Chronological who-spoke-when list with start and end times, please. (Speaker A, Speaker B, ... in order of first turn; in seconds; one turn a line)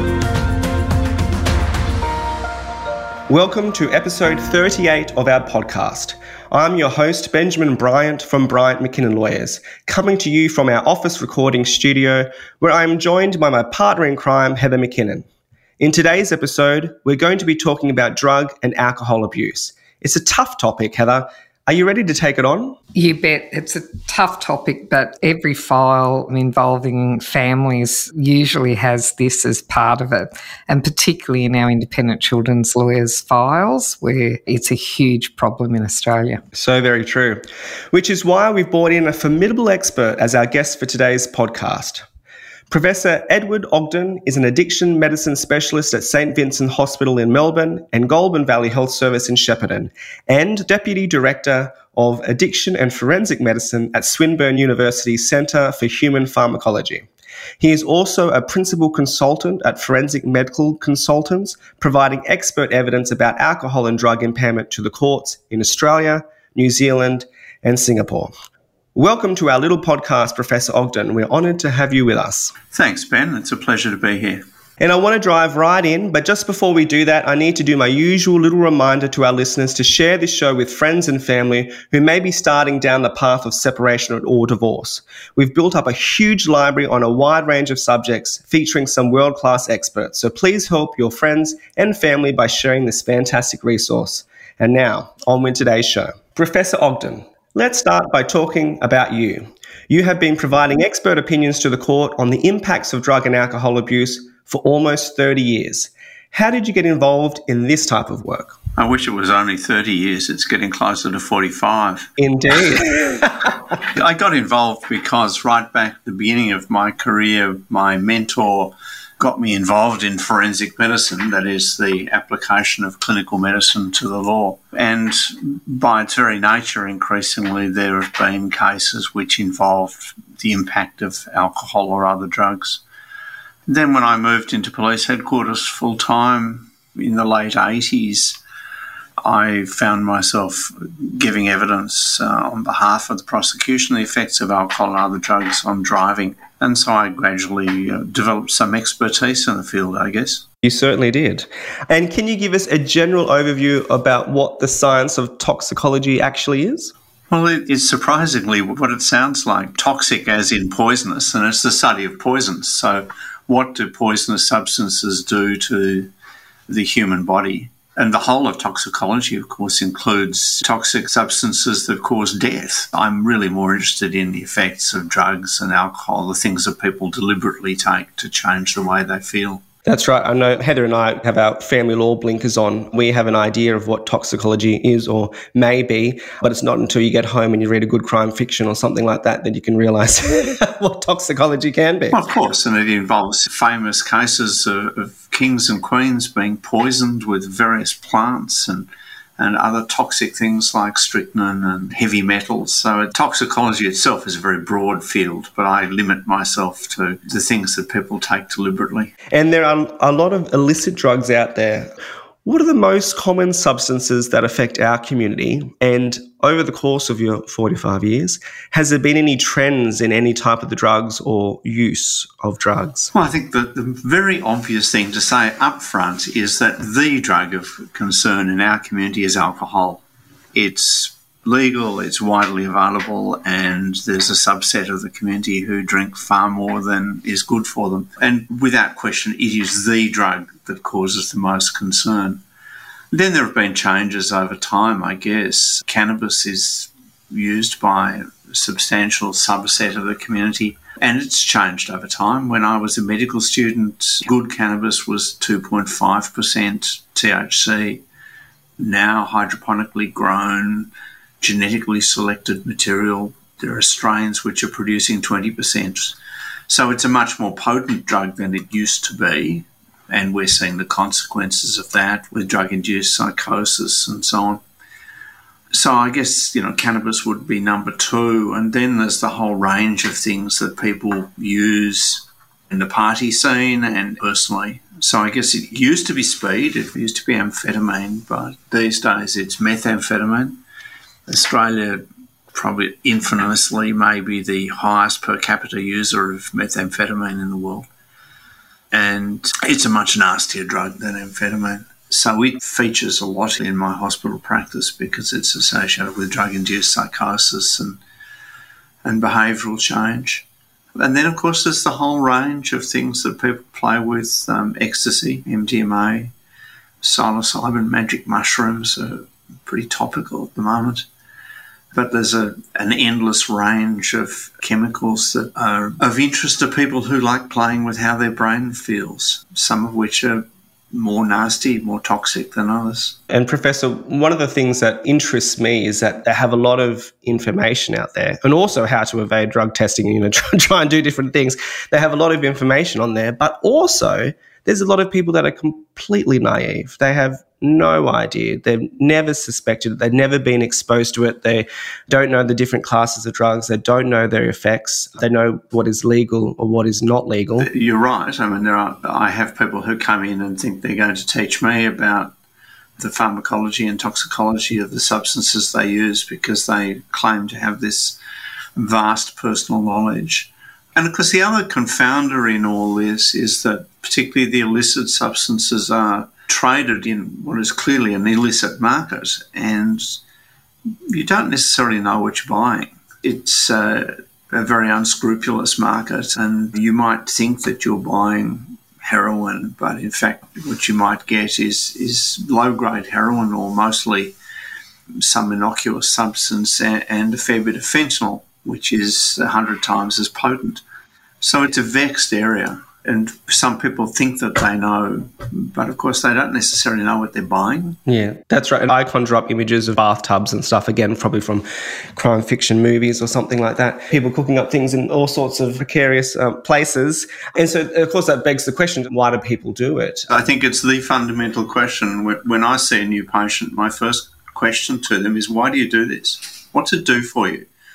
Speaker A: 3.3-15.2
Speaker A: 15.8-22.8
Speaker B: 22.9-36.4
Speaker A: 36.5-42.0
Speaker A: 42.7-57.1
Speaker A: 57.6-68.3
Speaker A: 68.9-72.5
Speaker C: 72.7-74.4
Speaker A: 74.8-108.5
Speaker C: 108.8-112.1
Speaker A: 112.2-113.5
Speaker C: 113.9-132.8
Speaker C: 133.7-138.4
Speaker C: 139.2-150.4
Speaker A: 150.6-156.9
Speaker C: 157.3-166.1
Speaker C: 166.7-179.6
Speaker A: 179.8-192.2
Speaker C: 192.1-209.1
Speaker A: 209.3-211.9
Speaker A: 212.4-223.1
Speaker C: 223.1-230.0
Speaker C: 230.5-242.4
Speaker C: 243.1-258.0
Speaker C: 258.8-266.2
Speaker C: 266.7-274.6
Speaker C: 275.7-290.6
Speaker C: 291.3-297.9
Speaker C: 298.9-308.0
Speaker C: 309.0-316.3
Speaker C: 317.0-321.1
Speaker C: 321.9-333.1
Speaker A: 333.3-357.7
Speaker C: 357.6-362.3
Speaker C: 363.0-368.2
Speaker C: 368.8-380.2
Speaker C: 381.1-394.3
Speaker C: 395.2-400.8
Speaker C: 401.4-408.0
Speaker A: 408.1-420.3
Speaker C: 420.3-427.7